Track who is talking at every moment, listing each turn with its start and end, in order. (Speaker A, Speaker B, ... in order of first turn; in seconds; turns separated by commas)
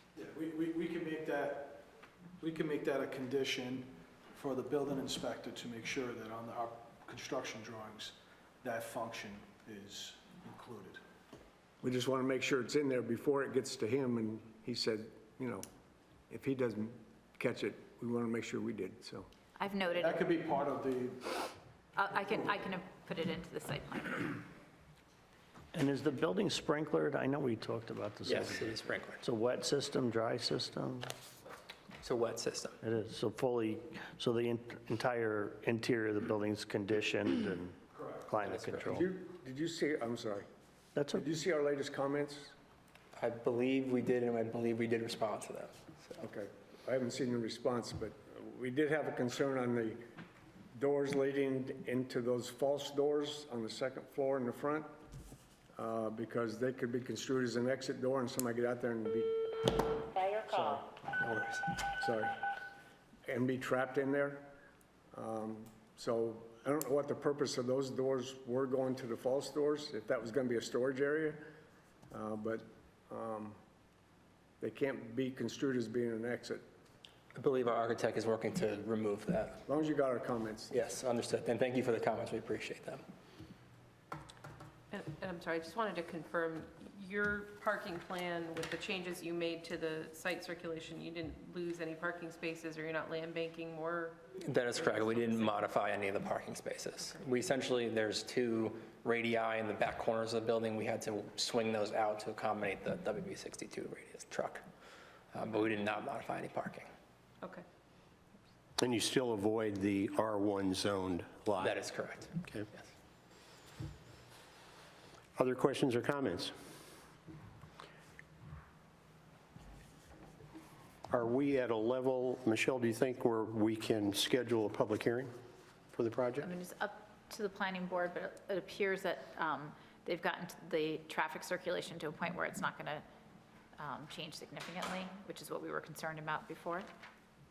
Speaker A: 0.1-11.0, Speaker B: 11.8-15.7, Speaker B: 16.3-19.3, Speaker C: 19.6-20.2, Speaker A: 19.9-21.5, Speaker C: 21.9-24.4, Speaker D: 25.7-31.1, Speaker E: 28.3-29.2, Speaker E: 32.0-32.8, Speaker D: 32.8-37.8, Speaker A: 37.9-38.3, Speaker D: 38.3-39.1, Speaker E: 38.4-38.9, Speaker B: 38.9-40.5, Speaker D: 41.0-41.3, Speaker B: 41.1-42.5, Speaker E: 43.2-46.2, Speaker B: 46.2-50.0, Speaker B: 50.7-54.9, Speaker B: 55.8-62.4, Speaker B: 63.3-64.5, Speaker B: 65.1-71.4, Speaker B: 72.1-73.6, Speaker B: 74.6-76.6, Speaker E: 77.3-79.6, Speaker B: 79.7-80.7, Speaker E: 80.7-83.0, Speaker F: 84.9-95.5, Speaker E: 94.4-104.6, Speaker E: 105.3-106.9, Speaker G: 108.8-111.8, Speaker E: 111.6-112.3, Speaker G: 112.4-112.7, Speaker G: 115.4-116.5, Speaker G: 121.1-125.3, Speaker G: 125.9-126.5, Speaker C: 126.4-133.0, Speaker C: 133.8-136.9